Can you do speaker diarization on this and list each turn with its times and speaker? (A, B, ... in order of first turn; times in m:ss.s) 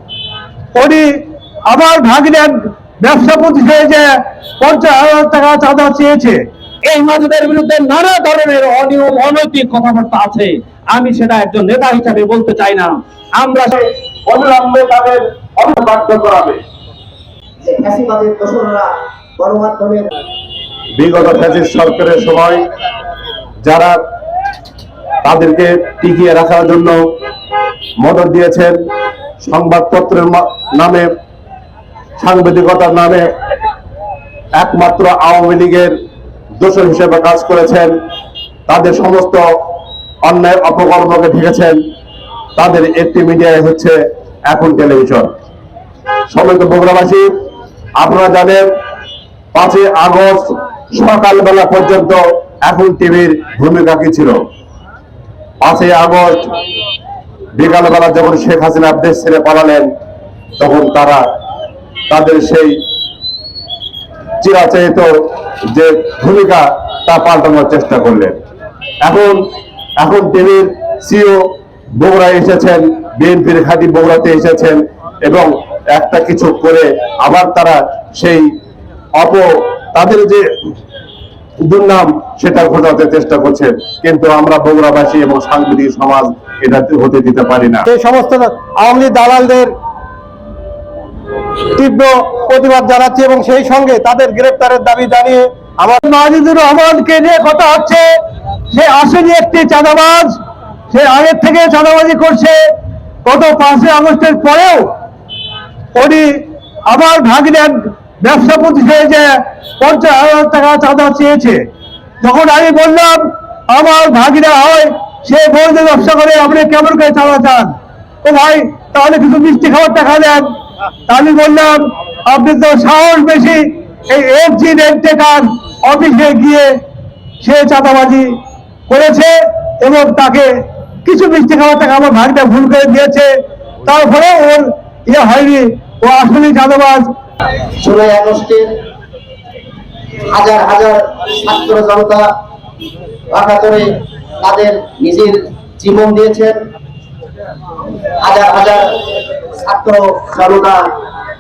0:00.8-0:01.1 A
0:01.7-0:06.4 A
0:06.9-0:13.8 B
0:14.3-0:16.6 C
0:17.6-0:20.1 D
0:21.0-0:22.6 C
0:23.6-0:24.0 C
0:25.2-0:27.0 C
0:28.0-0:28.8 C
0:29.4-0:31.1 C
0:32.2-0:33.3 C
0:34.6-0:35.9 C
0:36.6-0:37.9 C
0:38.7-0:39.4 C
0:40.2-0:41.8 C
0:42.6-0:44.0 C
0:44.5-0:45.3 C
0:46.3-0:47.3 C
0:48.0-0:48.6 C
0:49.5-0:54.4 C
0:55.6-0:56.5 C
0:57.6-0:59.9 C
1:00.6-1:01.2 C
1:02.1-1:02.8 C
1:04.4-1:05.1 C
1:05.7-1:08.4 C
1:09.0-1:09.4 C
1:10.0-1:11.4 C
1:12.0-1:18.4 C
1:19.2-1:20.4 C
1:21.7-1:27.9 C
1:27.9-1:29.7 A
1:31.8-1:38.1 A
1:38.7-1:40.3 A
1:40.9-1:42.6 A
1:43.2-1:44.8 A
1:46.0-1:46.3 A
1:46.9-1:51.6 A
1:52.2-1:53.2 A
1:53.7-1:57.7 A
1:58.2-2:00.4 A
2:01.1-2:06.7 A
2:07.4-2:08.3 A
2:08.9-2:10.5 A
2:11.0-2:13.3 A
2:13.9-2:17.0 A
2:17.8-2:18.7 D
2:20.3-2:22.3 D
2:23.3-2:26.6 D
2:28.2-2:30.9 D